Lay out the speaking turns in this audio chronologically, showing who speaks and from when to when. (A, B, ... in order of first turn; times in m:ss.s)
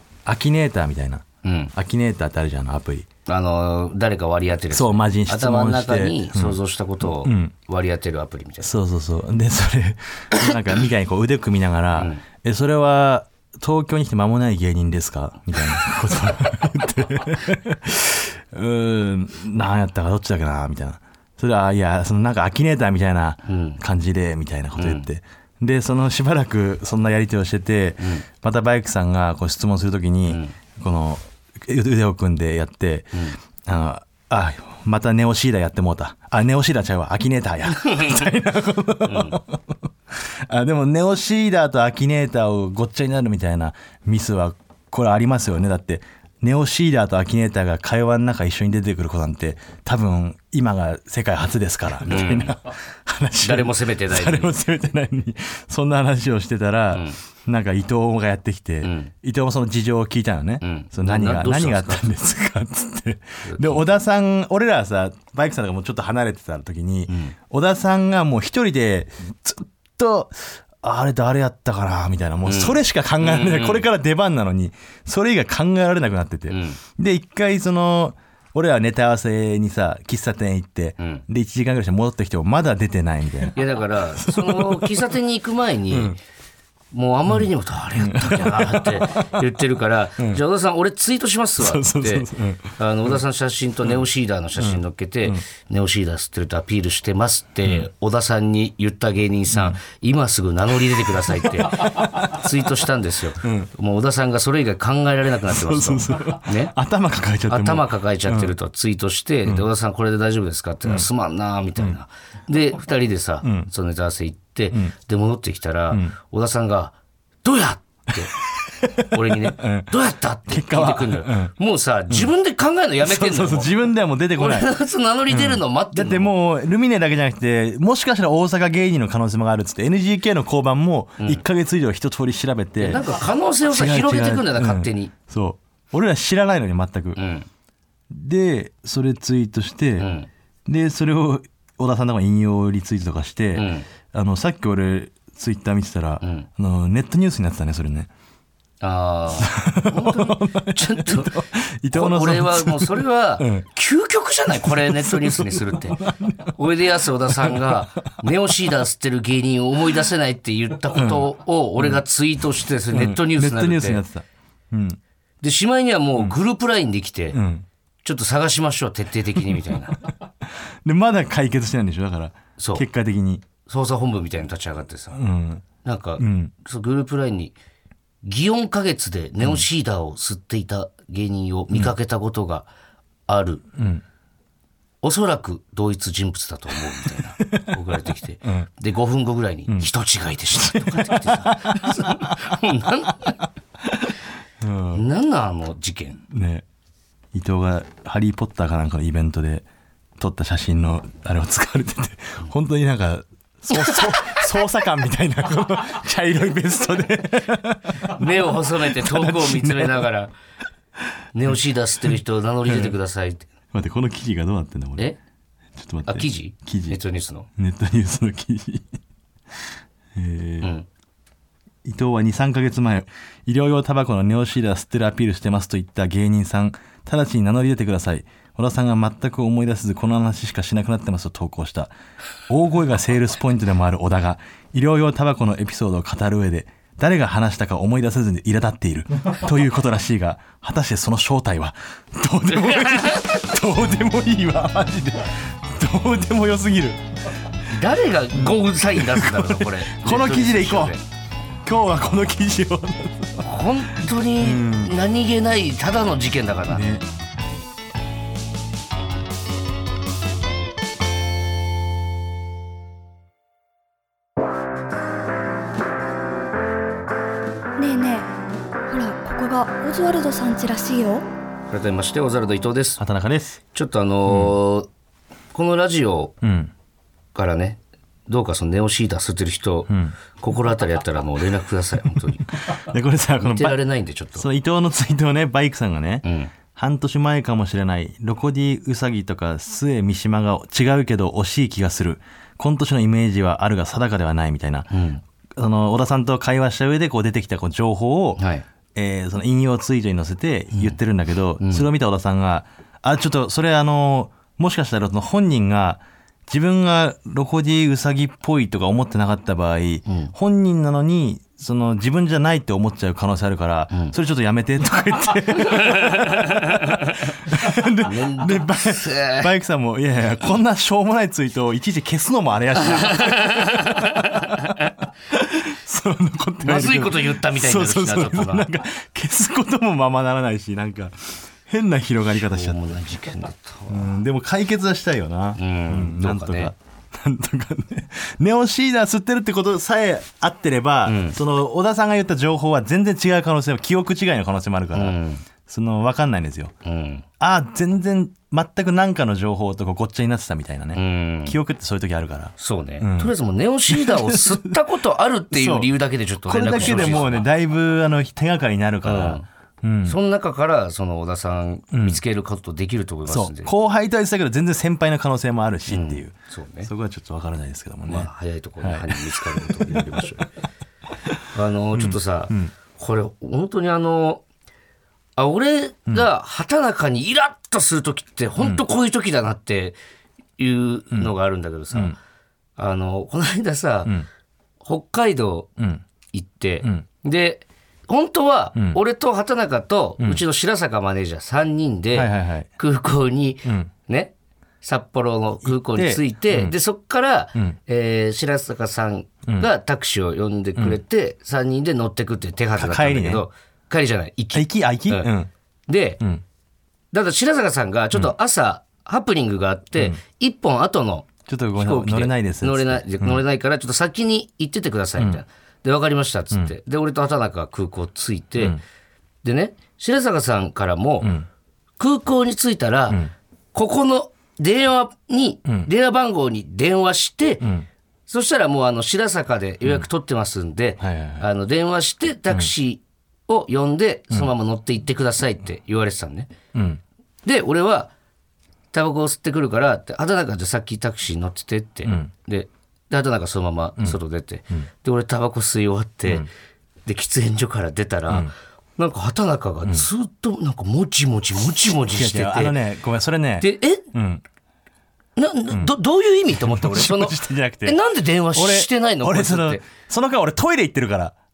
0:00.2-0:03.1 A
0:01.4-0:01.7 B
0:03.3-0:08.7 B
0:04.7-0:07.5 A
0:08.6-0:39.6 A
0:12.0-0:12.2 B
0:23.5-0:23.8 B
0:24.8-0:25.1 B
0:30.3-0:30.5 B
0:37.8-0:38.1 B
0:39.0-0:39.4 B
0:40.1-1:23.6 A
0:52.0-0:52.6 B
0:53.4-0:54.5 B
0:58.8-0:59.1 B
1:00.6-1:02.1 B
1:03.4-1:03.9 B
1:07.1-1:07.3 B
1:12.4-1:13.9 B
1:16.5-1:16.8 B
1:21.0-1:21.2 B
1:23.5-1:26.2 B
1:24.2-1:25.0 A
1:26.9-1:46.7 B
1:27.3-1:29.4 A
1:31.6-1:32.8 A
1:34.6-1:35.4 A
1:39.5-1:39.8 A
1:41.3-1:42.4 A
1:43.4-1:43.7 A
1:45.4-1:48.5 A
1:47.5-1:58.3 B
1:53.4-1:53.7 A
1:58.6-1:59.9 A
1:59.1-2:03.7 B
2:00.5-2:01.5 A
2:03.0-2:04.7 A
2:04.4-2:06.3 B
2:05.3-2:13.0 A
2:12.8-2:15.1 B
2:13.7-2:17.2 A
2:17.2-2:17.5 B
2:18.1-2:20.1 A
2:20.0-2:20.3 B
2:20.7-2:28.1 A
2:23.5-2:23.9 B
2:26.2-2:26.5 B
2:28.8-2:36.0 B
2:29.4-2:33.6 A
2:34.5-2:36.5 A
2:36.5-2:44.0 B
2:37.4-2:37.7 A
2:40.9-2:42.0 A
2:42.9-2:45.0 A
2:45.4-2:47.4 B
2:47.3-2:47.6 A
2:48.0-2:50.0 B
2:50.8-2:53.5 A
2:52.6-2:52.8 B
2:53.6-2:55.2 B
2:55.1-2:55.6 A
2:55.8-2:57.5 B
2:56.2-2:56.5 A
2:58.2-3:02.7 B
3:03.3-3:03.6 B
3:03.8-3:04.0 A
3:05.0-3:13.4 B
3:10.5-3:12.5 A
3:13.8-3:14.1 A
3:14.6-3:15.0 A
3:14.9-3:16.2 B
3:16.3-3:16.6 A
3:17.3-3:19.6 A
3:20.2-3:30.1 A
3:28.1-3:30.3 B
3:31.3-3:33.4 B
3:32.7-3:32.9 A
3:33.7-3:35.1 A
3:35.8-3:37.0 A
3:36.0-3:37.5 B
3:37.6-3:39.0 A
3:40.1-3:40.7 A
3:40.6-3:40.9 B
3:41.8-3:51.9 A
3:52.5-4:07.0 A
4:02.5-4:03.3 B
4:07.7-4:11.0 B
4:08.3-4:11.0 A
4:11.6-4:13.5 A
4:13.4-4:16.8 B
4:14.4-4:14.9 A
4:16.7-4:17.0 A
4:27.8-4:28.3 C
4:28.9-4:31.2 C
4:31.7-4:33.0 B
4:33.0-4:33.6 A
4:33.7-4:34.9 B
4:34.3-4:34.5 A
4:35.5-4:36.4 B
4:36.4-4:36.7 A
4:37.3-4:42.5 B
4:39.9-4:40.1 A
4:42.6-4:43.8 A
4:43.4-4:44.4 B
4:44.4-4:54.9 A
4:46.2-4:46.5 B
4:54.9-4:55.2 B
4:55.6-4:58.4 A
4:58.4-4:58.6 B
4:58.9-5:24.7 A
5:01.6-5:01.9 B
5:10.1-5:10.3 B
5:15.6-5:17.1 B
5:18.0-5:19.5 B
5:22.9-5:24.7 B
5:25.3-5:32.8 A
5:26.6-5:28.7 B
5:32.4-5:34.2 B
5:33.9-5:46.7 A
5:35.6-5:36.7 B
5:41.0-5:41.4 B
5:44.9-5:45.4 B
5:46.8-5:47.2 B
5:47.4-5:53.3 A
5:50.9-5:51.6 B
5:52.6-5:57.5 B
5:53.9-5:54.7 A
5:55.5-5:55.9 A
5:56.4-6:00.2 A
5:59.0-5:59.4 B
6:00.0-6:03.7 B
6:01.9-6:02.2 A
6:03.3-6:08.3 A
6:05.9-6:06.9 B
6:08.1-6:10.5 B
6:08.8-6:10.4 A
6:11.5-6:14.4 B
6:11.9-6:12.7 A
6:15.4-6:20.0 B
6:20.6-6:22.2 B
6:22.8-6:24.1 B
6:24.8-6:25.7 B
6:25.8-6:26.0 A
6:26.3-6:45.3 B
6:32.1-6:32.7 A
6:33.6-6:33.9 A
6:35.6-6:36.7 A
6:42.8-6:43.4 A
6:44.5-6:45.5 A
6:45.9-6:46.2 B
6:47.1-6:58.8 B
6:51.4-6:53.4 A
6:59.4-7:01.3 B
7:01.2-7:01.5 A
7:02.0-7:03.2 B
7:03.7-7:07.7 B
7:08.3-7:16.5 B
7:11.0-7:11.5 A
7:16.7-7:17.0 A
7:17.4-7:18.1 B
7:18.9-7:26.5 B
7:27.0-7:32.8 B
7:32.1-7:34.4 A
7:33.6-7:34.0 B
7:35.4-7:39.8 B
7:36.6-7:38.0 A
7:38.5-7:41.3 A